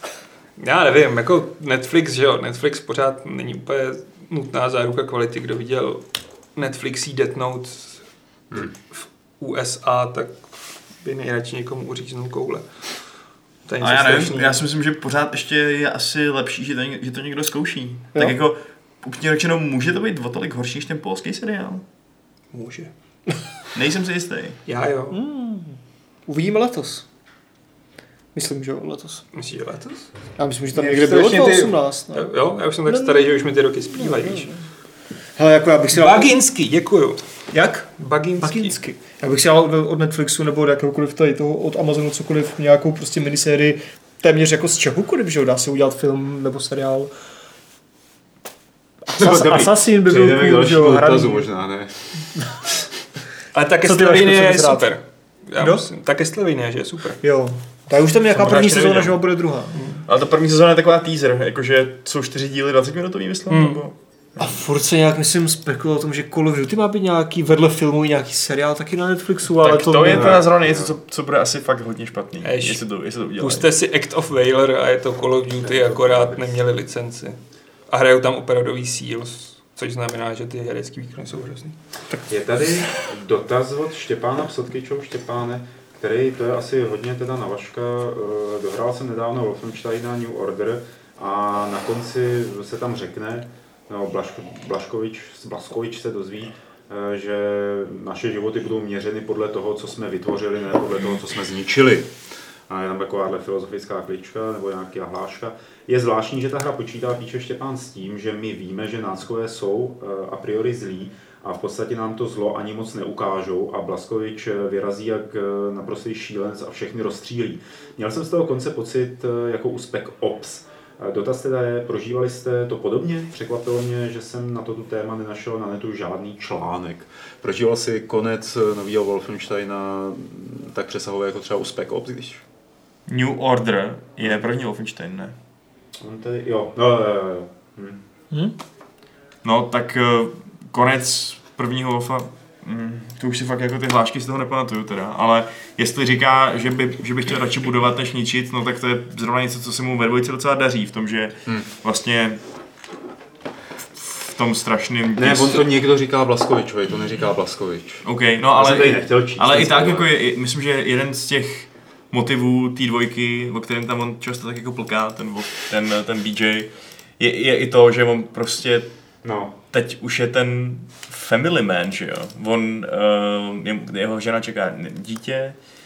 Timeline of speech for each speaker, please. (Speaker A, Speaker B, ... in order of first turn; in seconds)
Speaker A: 0.6-6.0, 6.6-12.7, 13.7-14.6, 22.5-22.9, 24.7-25.2, 29.3-30.1, 30.7-34.5, 35.9-37.2, 38.0-38.8, 53.5-57.2, 59.8-60.0, 63.5-63.8, 72.4-72.8, 73.4-77.4, 77.9-81.8
Speaker B: 13.8-21.8, 23.7-24.6, 58.3-59.2, 60.1-64.5, 69.6-73.7, 133.1-135.3, 139.4-152.4, 153.9-155.7, 158.1-168.9, 169.7-175.6
Speaker C: 25.1-27.1, 28.4-29.2, 30.4-32.3, 32.9-33.3, 33.9-34.5, 35.4-36.4, 37.5-47.1, 49.1-51.5, 53.8-54.9, 57.2-59.8, 64.4-70.5, 138.3-138.6
Speaker D: 49.2-52.1, 70.1-70.9, 75.6-76.5, 82.3-102.1, 102.7-132.4, 136.0-138.0, 155.2-160.1, 169.2-169.6